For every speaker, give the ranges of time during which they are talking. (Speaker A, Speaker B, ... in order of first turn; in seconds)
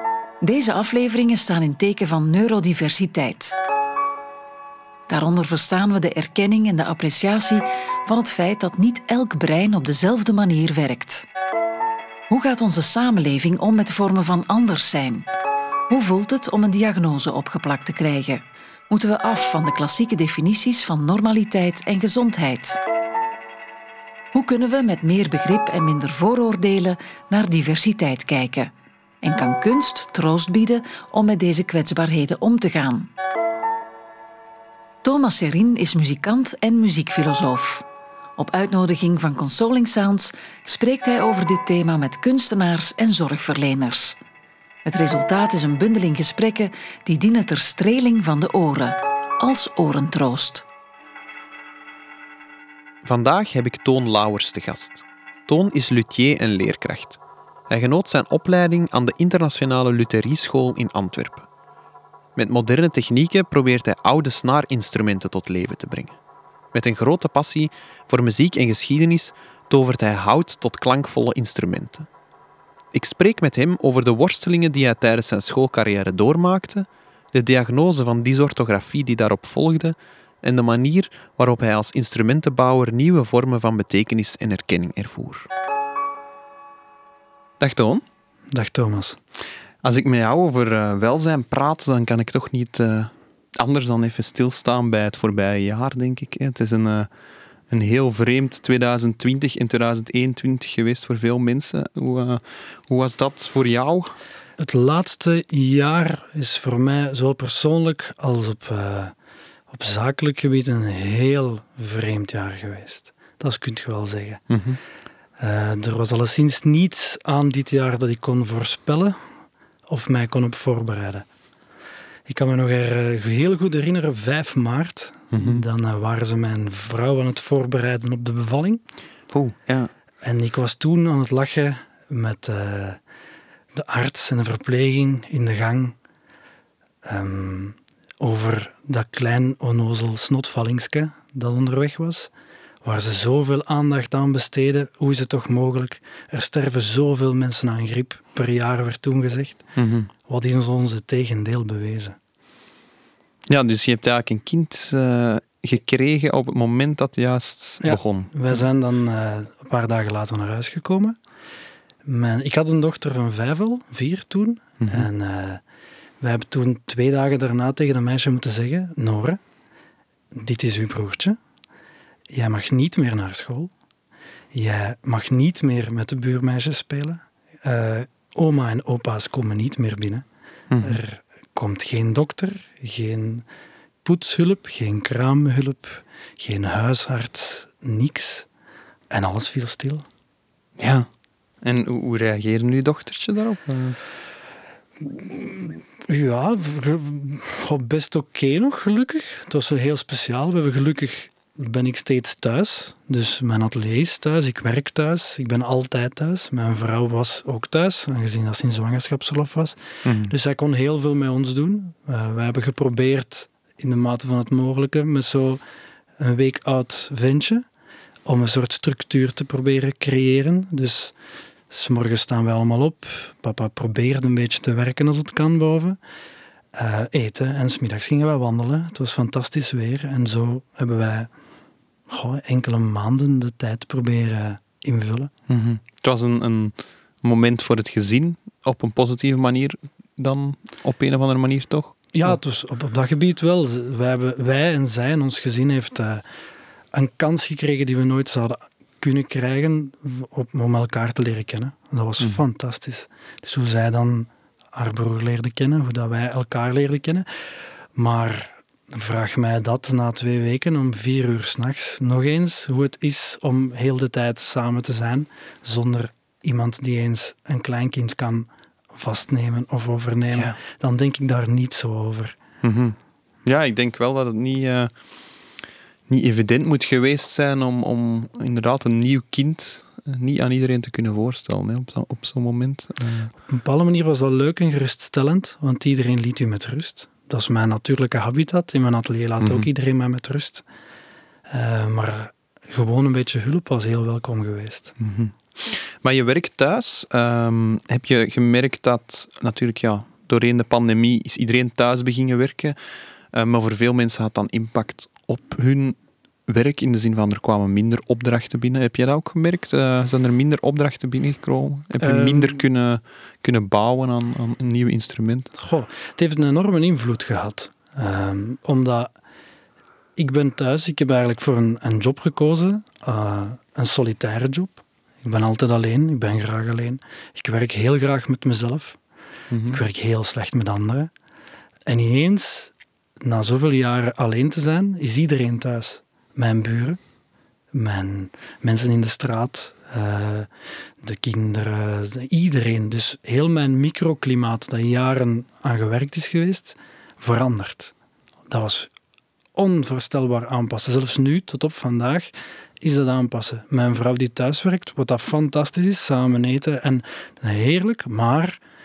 Speaker A: 0.4-3.5, 5.1-11.2, 12.3-15.2, 15.9-22.8, 24.3-28.7, 29.2-33.1, 35.0-37.8, 38.4-44.2, 44.8-50.6
Speaker B: 53.0-61.5, 62.4-66.2, 66.7-72.1, 72.9-85.5, 87.6-88.0, 89.8-97.1, 97.7-104.1, 114.5-114.8, 125.3-125.6, 129.3-129.9, 149.8-150.1, 153.5-158.6, 164.8-165.1, 180.7-181.0, 190.8-191.1, 191.6-194.0, 210.0-210.3, 235.5-242.4, 272.6-274.9, 276.1-283.3, 289.4-289.7, 295.0-302.8, 303.3-315.5, 329.5-329.8
Speaker C: 88.5-89.2, 104.6-109.1, 109.7-114.4, 115.4-119.2, 119.9-121.2, 122.2-128.8, 130.2-133.0, 133.7-135.9, 137.0-142.3, 142.8-149.7, 150.2-152.2, 157.8-161.2, 162.1-165.6, 166.2-169.4, 170.3-171.4, 172.3-173.7, 174.5-180.2, 180.8-183.4, 184.0-188.5, 189.1-190.1, 195.0-215.6, 216.2-217.7, 218.2-221.1, 221.7-226.0, 226.7-231.3, 232.1-235.3, 242.1-246.2, 246.9-257.2, 257.9-272.4, 283.5-290.6, 291.5-294.9, 312.0-312.6, 315.6-319.1, 320.2-329.0, 329.6-331.1, 331.9-337.0, 337.7-340.5, 341.0-347.9, 348.5-348.9, 349.5-358.6